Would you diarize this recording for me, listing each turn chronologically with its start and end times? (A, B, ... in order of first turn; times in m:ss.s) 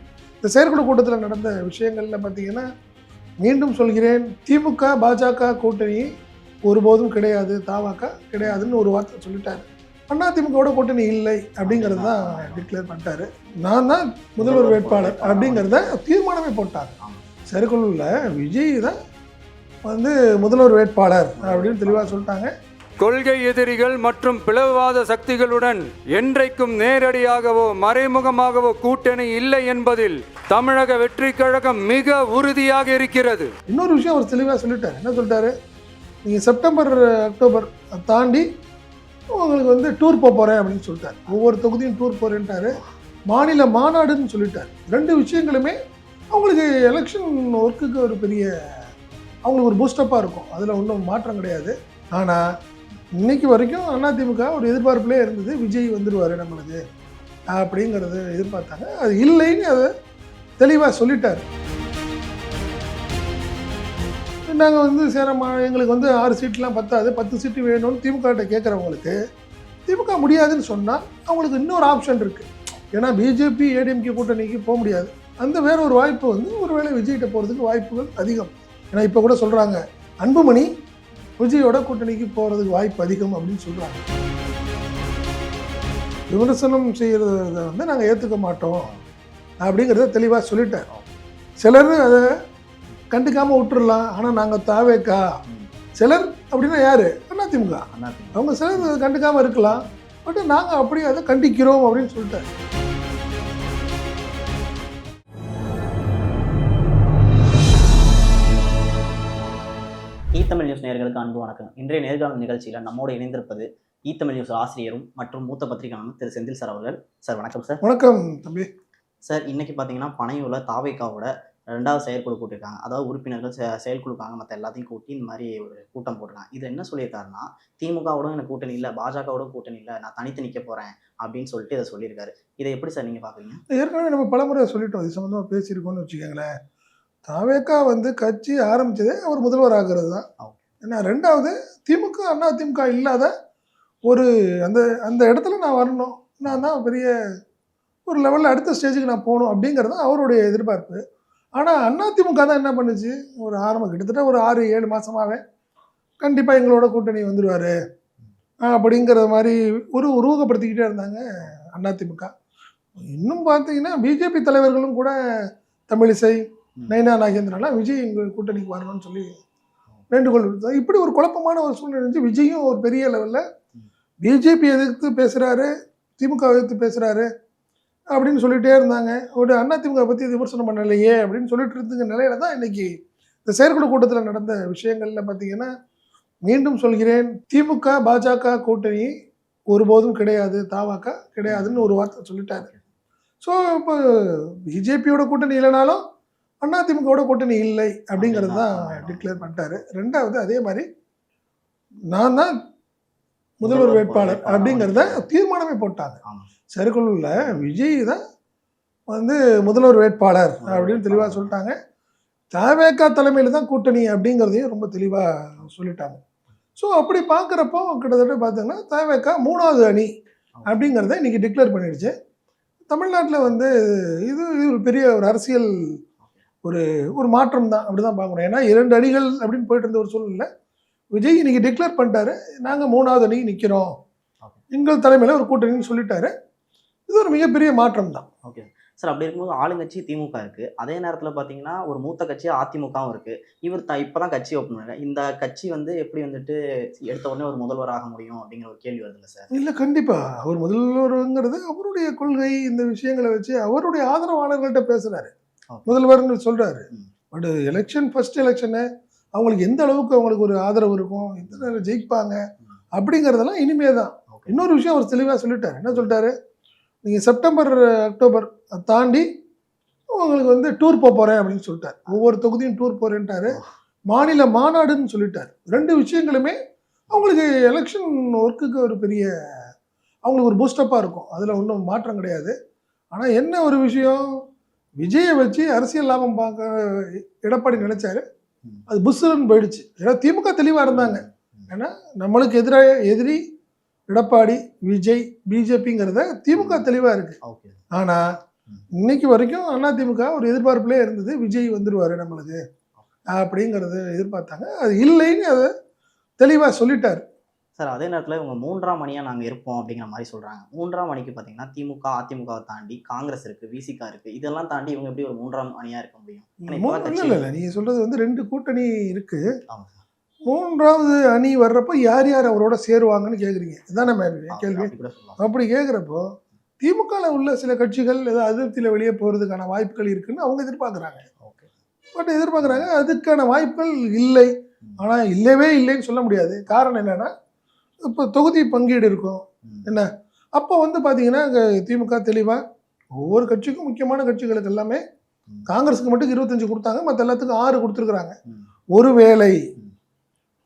0:00.4-0:02.6 A
0:03.4-0:06.1 A
0:06.7-0:17.0 A
0:08.4-0:08.7 B
0:11.6-0:12.7 B
0:14.4-0:16.0 B
0:17.5-0:19.0 A
0:19.9-0:22.5 A
0:21.4-0:22.2 B
0:23.0-0:33.5 C
0:33.7-0:35.5 A
0:36.2-0:38.5 A
0:39.3-0:45.8 A
0:46.3-0:48.5 A
0:49.4-0:52.4 A
0:53.2-0:56.8 A
0:57.5-0:59.9 A
1:00.6-1:01.4 A
1:04.5-1:09.2 A
1:09.9-1:20.7 A
1:21.4-1:24.0 A
1:26.3-1:28.9 A
1:29.6-1:30.9 A
1:30.9-1:31.2 B
1:31.6-1:32.3 A
1:33.1-1:35.2 A
1:36.0-1:42.5 A
1:37.9-1:38.9 B
1:50.3-1:57.8 B
1:57.8-1:58.7 A
1:59.3-2:13.6 B
2:13.8-2:16.5 A
2:17.3-2:20.2 A
2:20.8-2:23.3 A
2:24.1-2:27.1 A
2:28.1-2:31.0 A
2:31.6-2:35.4 A
2:36.2-2:37.7 A
2:38.6-2:42.3 A
2:43.1-2:45.1 A
2:45.9-2:49.3 A
2:50.1-2:53.4 A
2:54.2-2:57.3 A
2:58.1-3:02.9 A
3:03.4-3:05.7 A
3:06.5-3:09.1 A
3:09.7-3:12.7 A
3:11.5-3:11.9 B
3:13.4-3:16.0 A
3:16.6-3:20.9 A
3:18.2-3:19.5 B
3:22.1-3:22.5 A
3:23.6-3:26.2 A
3:23.6-3:25.2 B
3:26.2-3:26.5 B
3:26.7-3:28.2 A
3:27.4-3:27.7 B
3:29.1-3:31.8 A
3:30.6-3:31.5 B
3:32.5-3:36.2 A
3:36.8-3:40.1 A
3:40.6-3:40.9 B
3:40.7-3:42.1 A
3:42.9-3:45.7 A
3:46.6-3:50.5 A
3:51.1-3:53.9 A
3:54.7-3:56.3 A
3:57.1-3:58.3 A
3:58.4-4:09.5 B
4:09.5-4:15.3 A
4:15.7-4:16.0 B
4:15.9-4:22.4 A
4:23.0-4:26.3 A
4:24.3-4:24.6 B
4:27.0-4:29.3 A
4:30.1-4:36.6 A
4:37.1-4:39.3 A
4:40.2-4:42.5 A
4:43.1-4:44.3 A
4:45.0-4:48.2 A
4:48.9-4:53.4 A
4:50.9-4:51.6 B
4:54.1-4:57.4 A
4:56.5-4:56.9 B
4:57.4-4:57.8 B
4:57.9-4:58.2 A
4:59.0-5:02.6 A
5:03.3-5:05.7 A
5:06.4-5:07.2 A
5:07.8-5:17.5 B
5:16.7-5:19.4 A
5:19.7-5:20.0 B
5:20.5-5:31.2 A
5:24.5-5:25.4 B
5:31.4-5:31.7 B
5:32.2-5:37.3 A
5:32.6-5:32.9 B
5:38.0-5:42.6 A
5:43.2-5:45.0 A
5:45.7-5:48.4 A
5:48.9-5:49.6 A